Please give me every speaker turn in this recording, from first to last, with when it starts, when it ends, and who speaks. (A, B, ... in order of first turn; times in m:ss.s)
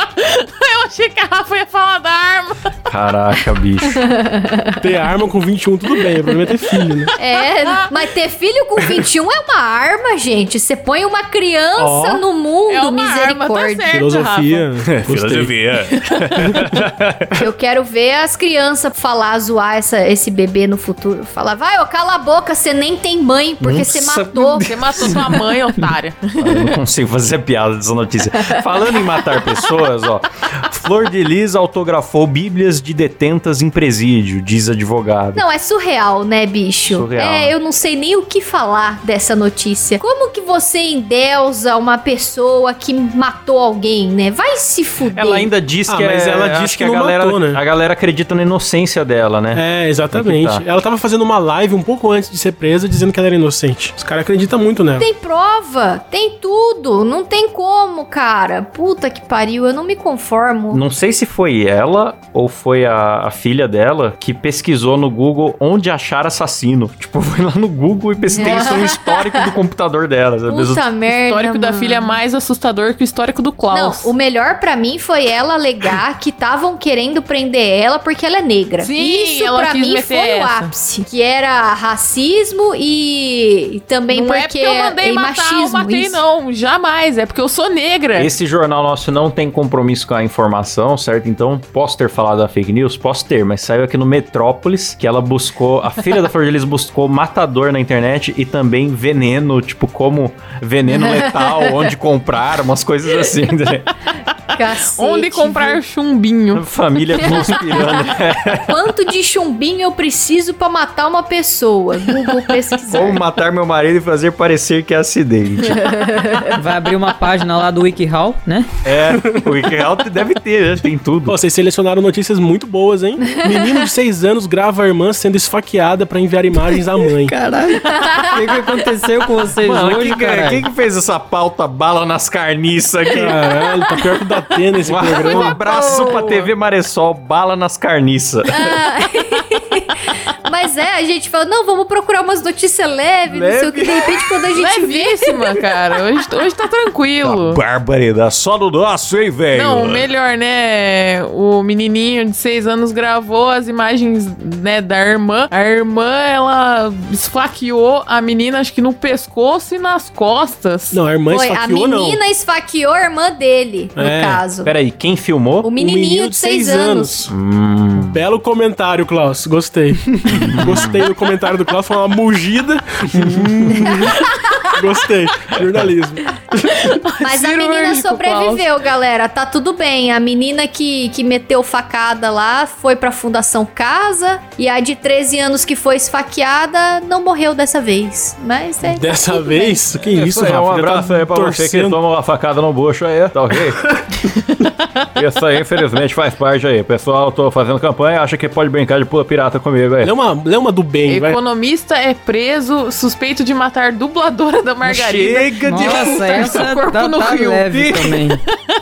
0:00.2-0:02.7 A
0:02.9-0:04.0 B
0:04.0-0:04.8 C
0:04.8-0:07.1 D
0:06.1-0:07.9 A
0:07.2-0:14.0 C
0:11.8-0:12.2 D
0:12.7-0:14.7 A
0:13.9-0:15.5 D
0:14.9-0:17.3 B
0:17.4-0:24.7 C
0:23.6-0:25.3 B
0:24.4-0:26.8 A
0:26.4-0:35.4 B
0:35.4-0:45.5 C
0:36.9-0:37.5 B
0:45.1-0:50.6 B
0:45.9-0:47.6 D
0:49.5-0:55.1 D
0:55.0-1:00.8 C
1:00.7-1:10.8 B
1:08.3-1:09.5 C
1:10.5-1:12.2 C
1:11.0-1:14.1 A
1:13.7-1:26.2 C
1:18.8-1:20.7 A
1:24.1-1:28.3 A
1:28.2-1:43.9 B
1:41.0-1:41.8 C
1:44.5-1:45.8 C
1:44.9-1:46.6 A
1:46.5-1:48.7 B
1:47.2-1:48.1 C
1:48.7-1:53.2 C
1:52.9-1:55.8 B
1:55.7-1:56.6 C
1:56.6-1:58.7 E
1:58.8-2:01.4 B
2:01.3-2:07.3 D
2:03.2-2:03.9 C
2:07.3-2:10.6 E
2:08.0-2:08.6 C
2:09.6-2:13.4 B
2:13.1-2:15.6 D
2:13.4-2:13.9 C
2:14.8-2:18.7 B
2:15.1-2:16.5 C
2:18.5-2:19.9 C
2:20.4-2:25.3 C
2:23.3-2:24.5 B
2:24.5-2:27.6 A
2:27.2-2:30.1 B
2:29.5-2:41.0 A
2:40.9-2:42.2 D
2:41.3-2:44.7 C
2:44.0-2:44.4 D
2:44.6-2:45.7 B
2:45.6-2:47.3 C
2:45.8-2:47.3 D
2:47.3-2:48.2 B
2:47.9-2:54.2 D
2:50.2-2:51.0 B
2:54.7-2:56.3 D
2:56.6-2:58.7 A
2:57.2-3:09.8 C
3:08.8-3:12.0 D
3:10.1-3:14.2 B
3:15.1-3:20.1 B
3:20.0-3:21.4 D
3:21.1-3:28.3 A
3:24.8-3:26.8 B
3:25.6-3:28.4 E
3:27.7-3:28.0 B